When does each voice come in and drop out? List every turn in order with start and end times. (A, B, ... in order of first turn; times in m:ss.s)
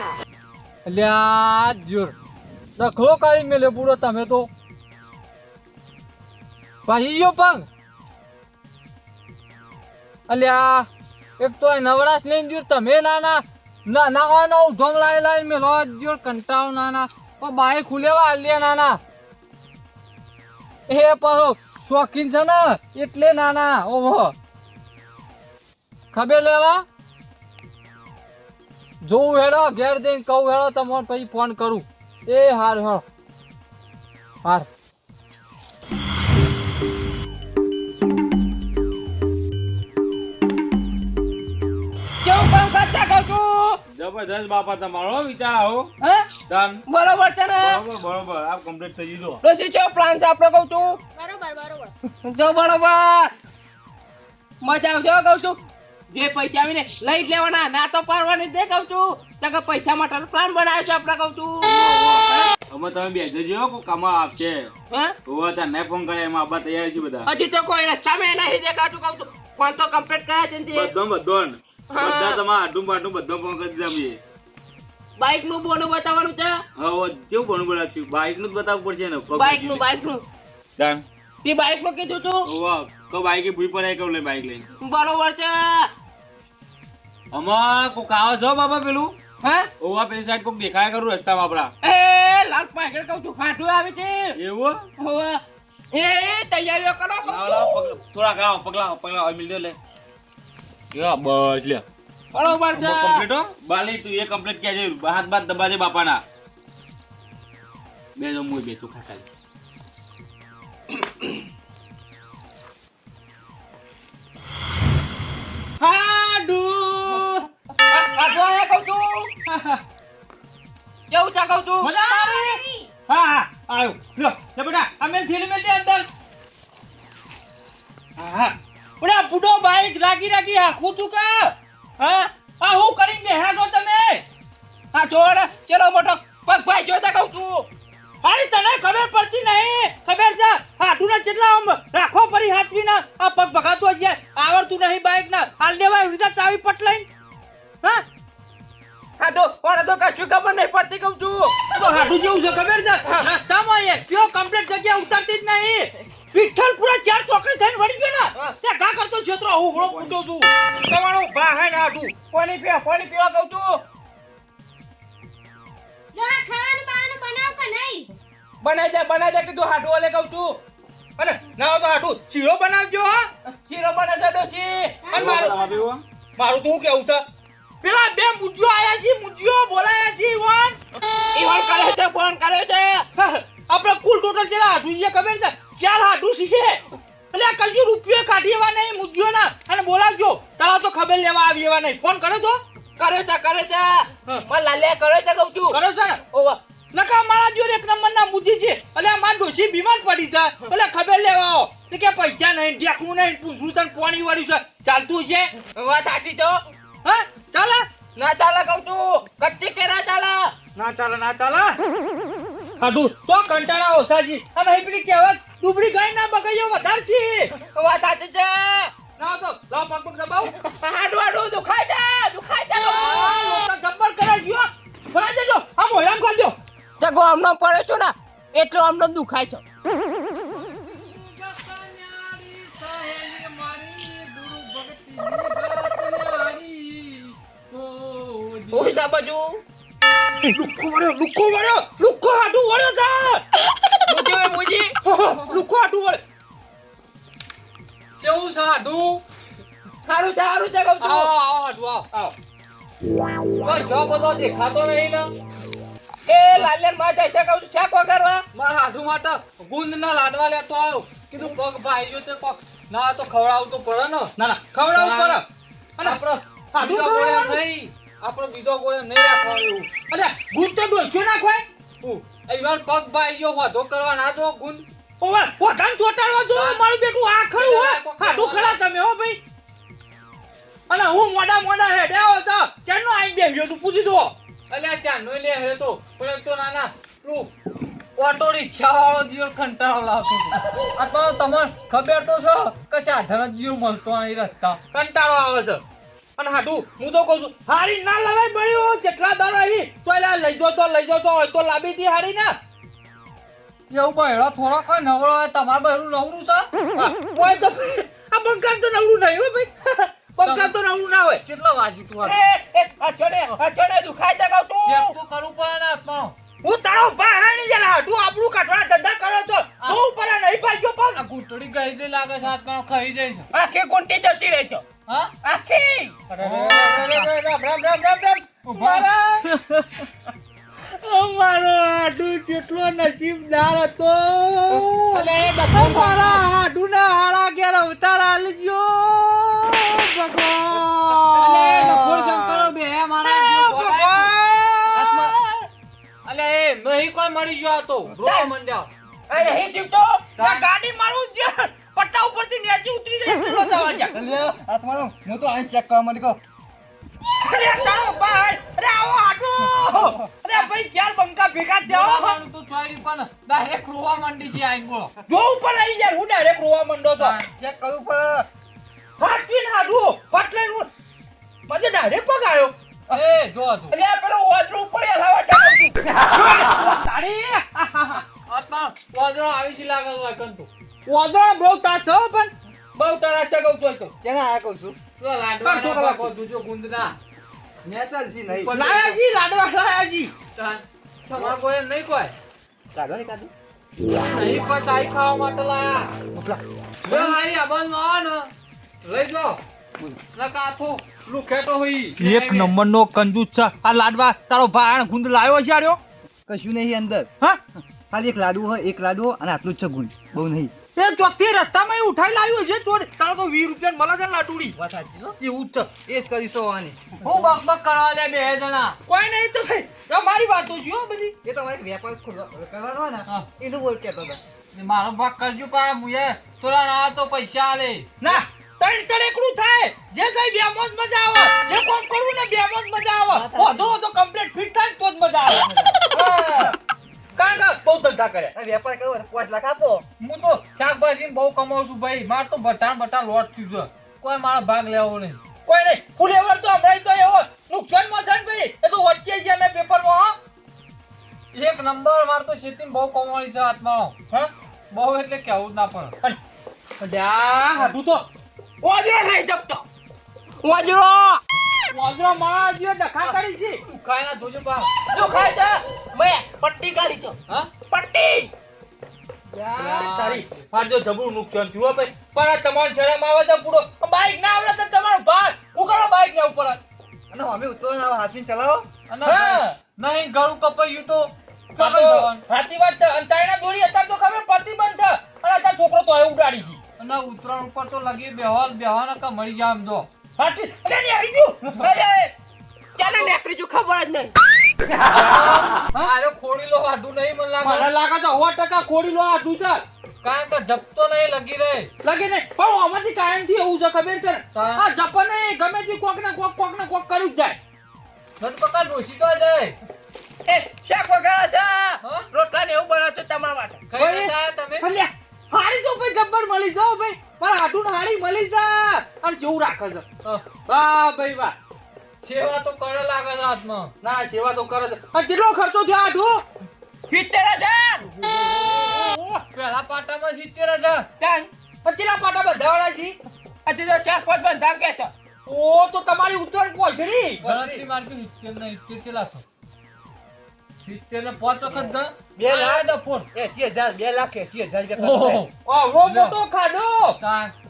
0:00.9-0:02.2 A
0:02.8-0:04.5 A
0:06.9-0:07.7 A
0:10.3-0:10.9 A
0:11.4-0:19.0 A
0:20.9-0:24.4 A
0:26.1-0:26.8 A
0:29.0-0:33.0 A
0:42.2-0:43.8 B
0:44.0-0:45.9 C
0:46.0-0:46.3 B
0:46.5-0:46.8 C
0:46.9-0:47.8 B
0:47.6-0:49.4 C
0:49.4-0:51.0 B
0:51.2-0:51.9 D
0:52.2-0:53.3 B
0:54.6-0:55.6 B
0:56.1-1:01.7 B
1:01.7-1:04.7 C
1:05.3-1:07.3 C
1:07.3-1:10.9 B
1:10.7-1:14.2 C
1:11.9-1:12.4 B
1:15.2-1:16.6 B
1:16.8-1:19.8 C
1:19.3-1:20.2 B
1:20.8-1:21.0 C
1:21.4-1:22.5 B
1:22.4-1:24.6 C
1:24.8-1:25.9 B
1:27.3-1:29.2 C
1:29.4-1:29.7 B
1:29.8-1:31.7 C
1:31.8-1:34.4 B
1:34.4-1:34.8 C
1:35.0-1:35.4 B
1:35.9-1:38.0 B
1:37.3-1:39.8 C
1:40.9-1:41.8 C
1:42.3-1:43.3 B
1:42.7-1:46.2 C
1:48.2-1:49.3 C
1:50.9-1:51.4 B
1:55.8-1:57.5 E
1:57.9-1:59.3 B
1:59.5-1:59.8 E
2:01.1-2:01.9 B
2:01.8-2:06.1 E
2:01.9-2:02.9 D
2:08.2-2:14.2 E
2:14.9-2:17.7 B
2:18.2-2:27.1 E
2:29.2-2:31.6 B
2:31.7-2:42.1 E
2:39.8-2:40.1 C
2:42.3-2:43.8 B
2:46.1-2:48.1 D
2:48.6-2:50.6 B
2:51.2-2:53.3 E
2:53.7-2:55.5 B
2:55.0-2:55.9 D
2:55.1-2:55.5 E
2:55.1-2:56.0 C
2:56.4-2:57.2 E
2:57.8-3:00.8 E
3:01.3-3:03.1 B
3:03.2-3:12.6 E
3:13.0-3:15.8 B
3:15.7-3:16.2 E
3:16.3-3:16.6 B
3:16.9-3:25.5 E
3:25.8-3:26.6 B
3:27.0-3:27.9 E
3:28.2-3:30.5 B
3:30.8-3:31.8 E
3:32.8-3:37.5 E
3:37.7-3:38.9 B
3:39.2-3:40.5 E
3:40.6-3:43.2 B
3:42.9-3:46.6 E
3:43.2-3:43.7 A
3:47.0-3:49.6 B
3:50.7-3:59.0 A
3:58.7-3:59.6 B
4:00.5-4:03.4 E
4:04.1-4:04.9 B
4:05.0-4:06.2 E
4:08.2-4:09.2 A
4:10.1-4:11.3 B
4:11.0-4:12.1 A
4:13.6-4:15.3 A
4:16.3-4:18.4 B
4:18.6-4:24.3 A
4:24.4-4:25.4 E
4:24.9-4:25.4 A
4:26.0-4:29.9 A
4:26.7-4:27.6 E
4:30.1-4:31.6 E
4:32.0-4:34.8 A
4:35.2-4:39.4 E
4:36.5-4:36.8 A
4:37.5-4:38.8 A
4:40.9-4:44.3 E
4:44.7-4:47.5 A
4:48.2-4:54.8 A
4:54.9-4:55.8 E
4:56.4-5:02.6 E
5:03.9-5:06.7 A
5:07.0-5:11.4 E
5:10.4-5:10.7 A
5:11.4-5:12.4 A
5:12.2-5:15.2 B
5:14.8-5:16.4 A
5:16.6-5:21.2 E
5:21.1-5:23.5 A
5:23.5-5:24.8 B
5:25.1-5:25.3 A
5:25.4-5:26.2 B
5:26.3-5:28.5 E
5:26.4-5:27.3 A
5:28.6-5:29.1 A
5:28.8-5:29.4 B
5:29.5-5:30.0 E
5:30.8-5:42.7 E
5:34.8-5:36.4 B
5:41.4-5:44.3 A
5:41.5-5:42.2 B
5:43.2-5:45.7 E
5:44.9-5:45.4 F
5:46.2-5:48.9 A
5:48.2-5:48.5 B
5:49.3-5:50.3 B
5:50.4-5:50.6 A
5:50.4-5:54.1 E
5:54.1-5:56.4 F
5:57.4-6:02.4 E
5:59.8-6:00.2 F
6:01.9-6:05.1 A
6:05.3-6:07.4 E
6:07.2-6:07.5 A
6:07.5-6:08.5 F
6:09.2-6:10.9 E
6:11.7-6:13.2 E
6:13.1-6:14.0 A
6:13.9-6:16.0 B
6:16.3-6:18.2 E
6:18.5-6:20.7 A
6:21.1-6:22.5 E
6:23.0-6:24.1 B
6:24.2-6:25.0 F
6:25.2-6:27.2 A
6:25.6-6:26.3 E
6:27.8-6:28.9 F
6:28.5-6:29.2 A
6:28.7-6:30.3 E
6:30.6-6:32.3 A
6:32.9-6:33.5 F
6:34.2-6:36.1 A
6:36.3-6:36.6 F
6:37.0-6:38.5 A
6:37.1-6:37.3 E
6:39.0-6:39.6 A
6:40.4-6:42.7 A
6:42.2-6:46.0 E
6:46.5-6:47.3 F
6:48.1-6:50.8 F
6:51.0-6:54.8 E
6:54.8-6:55.4 F
6:55.4-6:55.9 E
6:56.1-6:57.2 F
6:57.2-6:59.0 A
6:59.1-7:01.4 E
7:01.4-7:04.4 F
7:04.7-7:08.1 A
7:08.2-7:16.8 E
7:13.3-7:14.0 F
7:15.5-7:16.0 F
7:16.2-7:16.7 A
7:17.4-7:18.5 E
7:18.5-7:20.0 F
7:20.2-7:25.4 A
7:25.7-7:30.4 E
7:31.5-7:34.2 A
7:34.9-7:36.1 A
7:37.0-7:38.3 E
7:38.8-7:39.8 B
7:40.6-7:41.4 B
7:41.9-7:43.8 E
7:43.2-7:44.9 A
7:45.1-7:47.4 B
7:47.9-7:48.5 B
7:49.5-7:56.8 E
7:49.8-7:50.7 A
7:57.3-7:58.9 F
7:59.1-8:02.4 A
7:59.2-7:59.8 E
8:01.8-8:06.8 E
8:07.0-8:10.1 A
8:10.4-8:11.8 E
8:11.8-8:12.3 B
8:13.0-8:14.3 B
8:15.1-8:17.9 A
8:17.6-8:19.8 E
8:20.2-8:21.9 A
8:22.0-8:27.6 E
8:24.5-8:24.8 A
8:28.4-8:29.8 A
8:30.5-8:33.9 B
8:32.0-8:32.3 A
8:33.9-8:34.9 A
8:34.0-8:40.1 E
8:40.7-8:41.6 E
8:42.2-8:43.9 A
8:44.0-8:46.4 E
8:47.1-8:48.0 B
8:48.2-8:49.4 E
8:49.5-8:51.1 A
8:51.2-8:51.5 B
8:51.8-8:53.2 E
8:53.7-8:55.1 B
8:55.5-8:57.4 E
8:57.4-8:57.8 F
8:57.4-8:59.4 A
9:00.8-9:03.3 A
9:02.4-9:05.4 F
9:05.0-9:05.5 A
9:05.6-9:07.2 E
9:06.0-9:06.4 A
9:07.2-9:07.5 A